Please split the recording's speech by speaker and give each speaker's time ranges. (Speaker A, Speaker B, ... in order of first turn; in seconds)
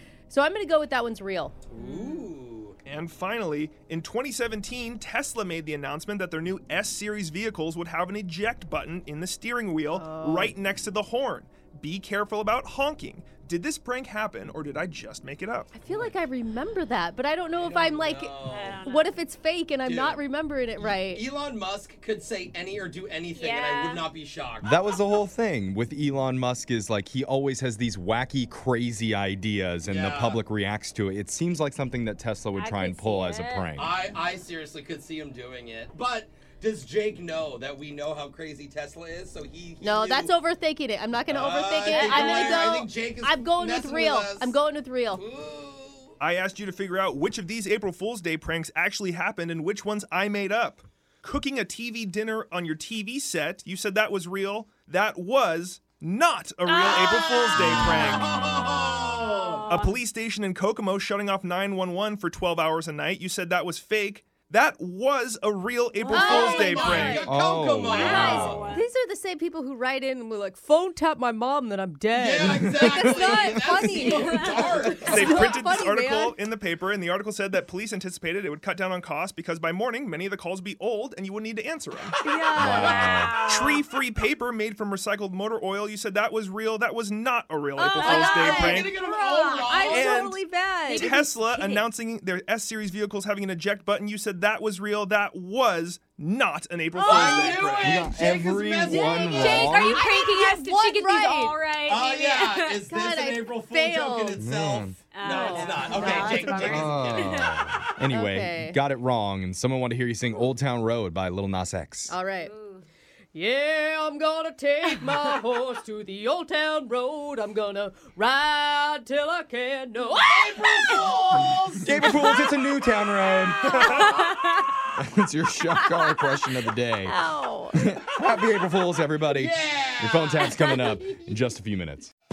Speaker A: 0.3-1.6, 9.9-10.6, 15.7-21.2, 39.8-45.2, 66.0-76.4, 82.2-83.0, 87.8-91.8, 98.8-101.6, 102.8-104.4, 105.2-106.8, 108.1-108.8, 112.1-112.5, 113.3-121.2, 123.7-124.0, 125.7-126.3, 127.0-127.8
Speaker B: 1.7-2.8, 15.9-16.2, 17.5-18.8, 19.8-20.2, 20.8-24.9, 29.8-30.4, 33.8-40.3, 41.3-44.5, 45.1-46.1, 56.8-59.8, 66.1-68.7, 72.1-75.4, 82.8-83.1, 88.5-90.1, 97.0-99.8, 101.8-107.5, 120.3-122.3, 129.3-131.3
Speaker C: 1.8-2.3, 18.5-19.1, 23.3-24.1, 32.5-33.7, 41.9-42.7, 56.7-60.0, 66.0-67.0, 67.8-68.9, 73.9-74.9, 82.3-83.8, 88.0-88.7, 97.0-97.7, 99.3-102.8, 105.1-107.6, 112.4-112.8
Speaker D: 2.9-15.7, 46.2-58.4, 59.7-67.3, 75.0-82.1, 83.3-89.0, 89.8-90.4, 90.9-98.0, 123.8-124.2
Speaker E: 24.6-33.9, 67.2-68.7, 72.5-73.5, 82.6-83.4, 97.7-100.0, 104.4-105.0, 106.4-112.2, 121.8-124.3, 124.8-127.2, 127.7-132.1